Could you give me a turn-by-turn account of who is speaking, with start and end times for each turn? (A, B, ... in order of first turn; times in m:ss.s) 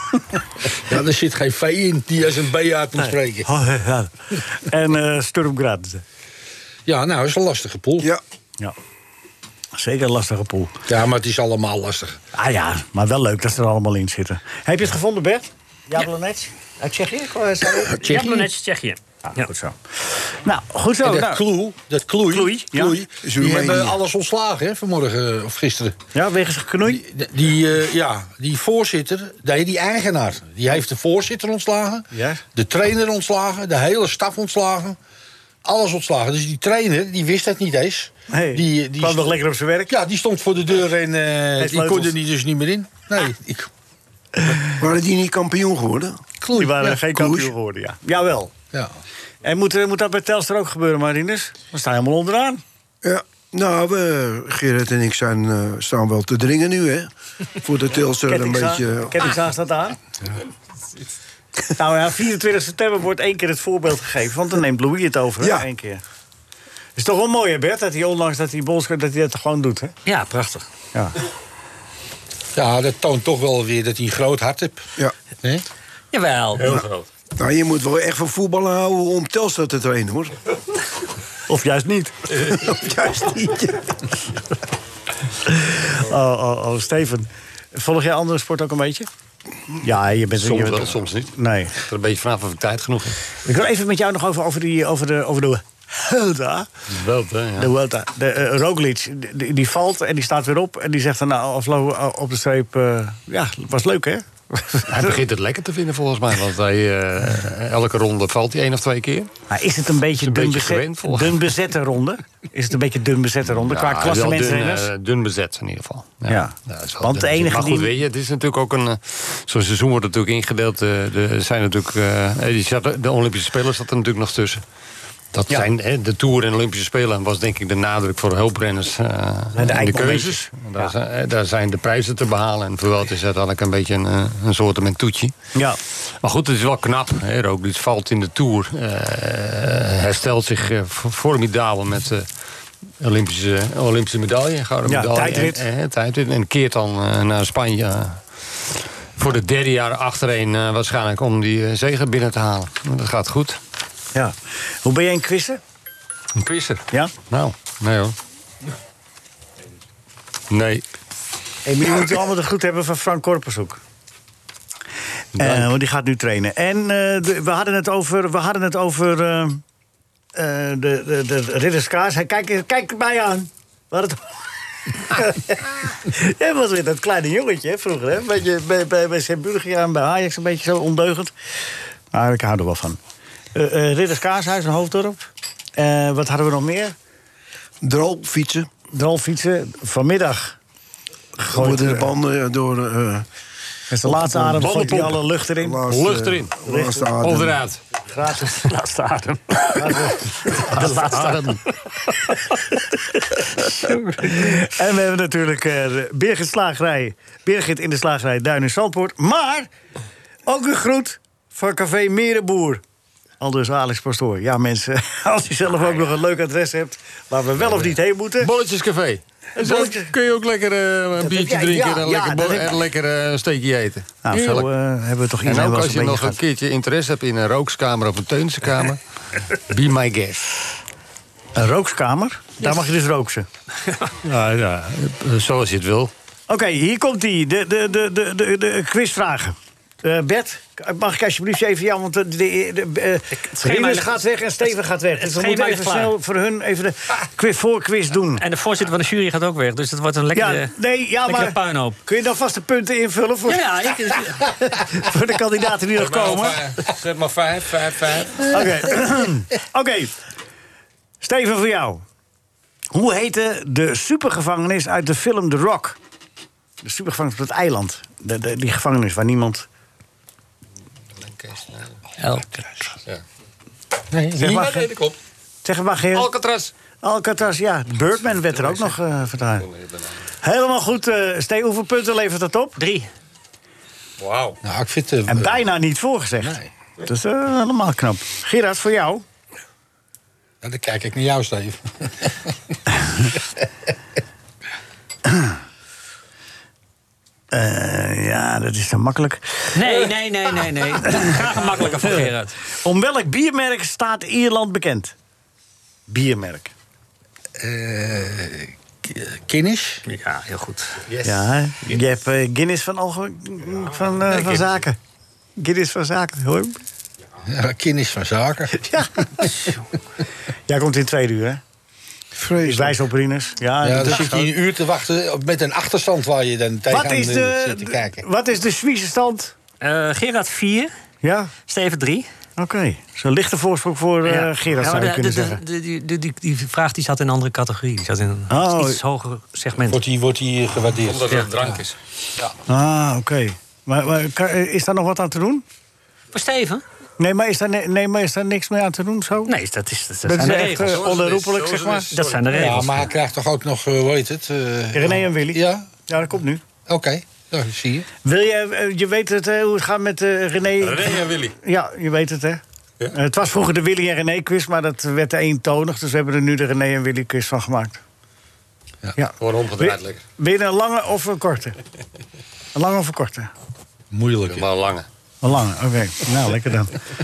0:00.9-0:03.5 A
0:03.0-0:06.0 B
0:06.9-0:08.1 A
0:09.8-0:10.7 B
0:10.9-0:12.2 A
0:12.4-0:18.0 B
0:18.0-0:18.5 A
0:18.0-0:19.5 C
0:19.3-0:19.8 B
0:20.4-0:21.4 B
0:21.0-0:26.0 A
0:22.3-0:23.0 B
0:23.2-0:24.0 D
0:26.1-0:27.0 B
0:26.8-0:35.0 A
0:32.1-0:32.4 B
0:35.6-0:39.4 A
0:38.3-0:39.9 B
0:39.9-0:43.7 A
0:41.6-0:42.2 B
0:44.8-0:46.2 D
0:46.4-0:46.9 A
0:46.6-0:48.5 B
0:47.1-0:47.5 D
0:49.4-0:52.6 B
0:53.0-0:59.3 D
0:58.3-1:00.0 B
1:01.8-1:06.0 B
1:05.4-1:05.7 D
1:07.0-1:09.9 B
1:10.1-1:10.6 C
1:12.6-1:14.9 A
1:16.1-1:16.8 C
1:16.6-1:17.1 E
1:17.4-1:20.4 D
1:21.5-1:22.2 B
1:22.5-1:24.0 D
1:25.5-1:29.1 B
1:29.8-1:31.7 B
1:30.4-1:33.2 E
1:33.4-1:36.7 B
1:36.9-1:37.7 E
1:37.6-1:45.2 B
1:44.9-1:49.3 E
1:49.5-1:54.9 B
1:50.2-1:51.5 E
1:53.5-2:04.6 E
1:56.3-1:57.9 B
2:05.3-2:15.3 E
2:09.6-2:10.9 B
2:16.1-2:22.3 E
2:23.0-2:33.6 E
2:24.9-2:25.6 B
2:34.1-2:35.6 B
2:36.4-2:38.2 E
2:40.5-2:40.8 E
2:41.6-2:43.8 B
2:45.4-2:49.6 B
2:45.4-2:45.7 E
2:50.4-2:54.2 B
2:54.9-3:01.3 B
3:02.1-3:03.0 B
3:03.5-3:07.0 B
3:07.8-3:08.7 D
3:08.9-3:10.6 B
3:11.4-3:12.1 B
3:11.5-3:13.3 D
3:13.9-3:15.8 B
3:14.2-3:15.2 E
3:15.6-3:17.6 D
3:15.9-3:16.6 E
3:16.7-3:17.0 B
3:17.2-3:17.8 E
3:18.1-3:18.6 B
3:18.4-3:19.8 C
3:19.7-3:21.3 B
3:20.6-3:21.6 E
3:20.8-3:21.4 C
3:23.7-3:24.1 C
3:24.2-3:29.7 B
3:30.5-3:32.8 B
3:33.4-3:38.5 B
3:37.6-3:44.7 E
3:39.6-3:40.1 B
3:41.2-3:42.8 B
3:44.2-3:46.4 B
3:45.4-3:50.6 E
3:51.6-3:53.5 B
3:54.2-3:56.1 E
3:56.5-4:08.4 B
4:03.4-4:04.2 C
4:05.2-4:06.1 C
4:08.4-4:10.7 C
4:10.3-4:13.6 B
4:11.3-4:12.0 C
4:13.5-4:14.5 C
4:14.7-4:16.6 B
4:16.0-4:18.6 E
4:18.5-4:20.2 B
4:21.2-4:22.0 B
4:22.9-4:26.0 B
4:26.8-4:29.7 B
4:31.2-4:32.0 E
4:32.2-4:32.6 C
4:34.1-4:35.2 A
4:34.4-4:34.9 B
4:35.6-4:36.3 B
4:36.1-4:36.7 E
4:37.0-4:39.7 B
4:38.4-4:39.0 E
4:39.6-4:40.2 E
4:40.4-4:42.8 B
4:42.8-4:43.1 C
4:44.2-4:44.6 E
4:44.6-4:45.6 A
4:45.3-4:49.2 B
4:46.4-4:46.7 A
4:50.6-4:52.5 A
4:55.3-4:55.5 B
4:57.5-4:59.8 B
4:59.7-5:02.6 C
5:01.1-5:01.4 B
5:02.8-5:05.1 B
5:06.1-5:06.7 B
5:07.6-5:10.0 A
5:10.1-5:11.0 C
5:11.1-5:11.4 E
5:11.2-5:15.0 B
5:15.6-5:16.8 B
5:17.5-5:18.8 A
5:18.8-5:19.7 B
5:20.7-5:21.6 B
5:22.4-5:23.0 D
5:22.6-5:24.5 B
5:23.8-5:28.2 A
5:26.9-5:29.5 B
5:29.8-5:30.9 C
5:31.2-5:31.5 B
5:31.7-5:32.3 C
5:32.6-5:35.6 B
5:34.2-5:40.0 C
5:38.5-5:39.0 B
5:39.9-5:41.7 A
5:41.1-5:42.0 E
5:42.7-5:45.6 B
5:46.3-5:46.8 C
5:47.2-5:49.5 B
5:49.5-5:51.0 C
5:50.3-5:52.6 B
5:50.5-5:52.6 E
5:52.1-5:53.1 C
5:52.6-5:55.9 A
5:54.9-5:56.6 B
5:56.9-5:58.1 A
5:58.2-6:02.6 B
6:00.8-6:01.6 E
6:03.1-6:08.0 B
6:09.2-6:11.8 B
6:09.4-6:10.2 E
6:12.8-6:13.5 B
6:14.1-6:14.7 A
6:14.5-6:15.1 E
6:15.4-6:17.0 B